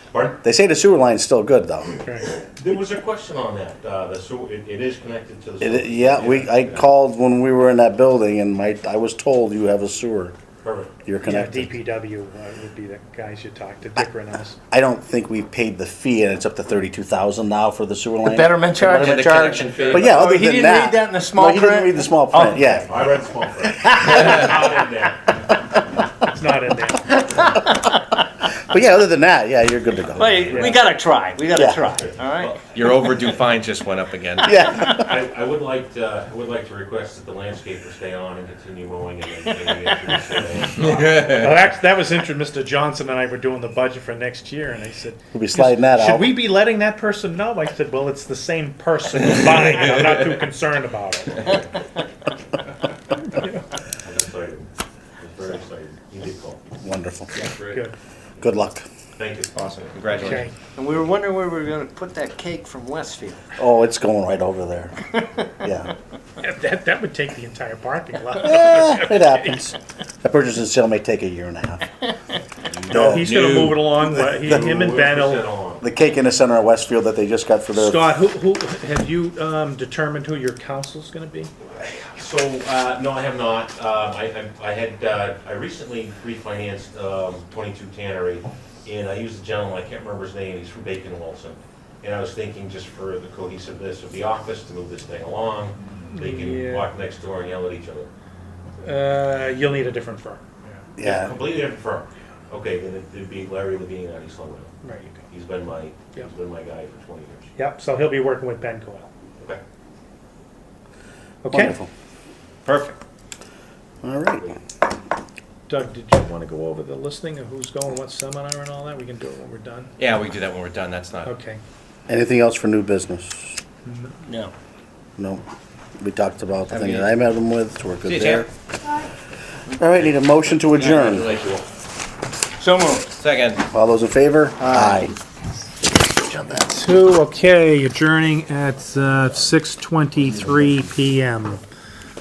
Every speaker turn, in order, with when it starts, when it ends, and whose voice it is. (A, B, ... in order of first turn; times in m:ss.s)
0:00.1-0:00.4 A
0:00.4-0:02.0 B
0:02.0-0:02.3 C
0:02.4-0:06.8 A
0:05.6-0:10.3 B
0:10.6-0:10.9 A
0:11.0-0:11.8 B
0:11.2-0:14.6 C
0:14.7-0:23.0 B
0:18.2-0:22.7 D
0:19.0-0:20.2 E
0:22.8-0:25.4 A
0:23.8-0:24.4 B
0:26.2-0:27.2 C
0:28.5-0:30.5 B
0:30.1-0:32.6 D
0:30.3-0:30.8 A
0:30.5-0:30.8 C
0:31.5-0:31.8 B
0:31.7-0:33.2 A
0:32.7-0:34.6 E
0:34.4-0:35.1 B
0:34.6-0:41.4 A
0:40.8-0:41.4 E
0:41.2-0:51.6 C
0:45.3-0:46.5 B
0:53.3-0:53.6 C
0:54.0-0:54.7 A
0:55.2-0:56.6 A
0:56.8-0:57.3 B
0:57.4-0:57.8 E
0:57.7-0:57.9 C
0:58.4-0:58.8 B
0:59.2-1:00.4 A
0:59.7-1:00.4 E
1:00.1-1:00.5 C
1:00.4-1:03.4 D
1:03.6-1:05.0 B
1:05.5-1:05.9 B
1:06.4-1:09.6 C
1:08.4-1:11.9 B
1:12.9-1:13.3 B
1:12.9-1:15.5 C
1:12.9-1:14.1 E
1:14.2-1:15.8 A
1:15.8-1:18.1 B
1:17.7-1:21.5 C
1:22.1-1:38.1 A
1:36.1-1:36.9 C
1:38.8-1:40.4 C
1:41.0-1:41.4 B
1:41.0-1:44.7 A
1:44.8-1:45.3 C
1:45.3-1:47.5 A
1:47.6-1:49.1 C
1:51.4-1:51.8 C
1:51.5-1:51.9 B
1:52.6-1:53.0 E
1:54.0-1:54.6 B
1:55.7-1:59.9 C
2:00.0-2:01.3 E
2:01.2-2:01.6 C
2:02.1-2:03.6 B
2:03.8-2:04.2 C
2:04.2-2:04.5 D
2:05.2-2:05.4 B
2:06.0-2:08.5 B
2:06.8-2:07.0 E
2:08.0-2:08.5 E
2:09.7-2:11.3 B
2:10.7-2:11.6 E
2:12.6-2:13.2 D
2:13.1-2:13.6 E
2:13.7-2:15.1 B
2:14.6-2:15.1 D
2:16.6-2:21.6 C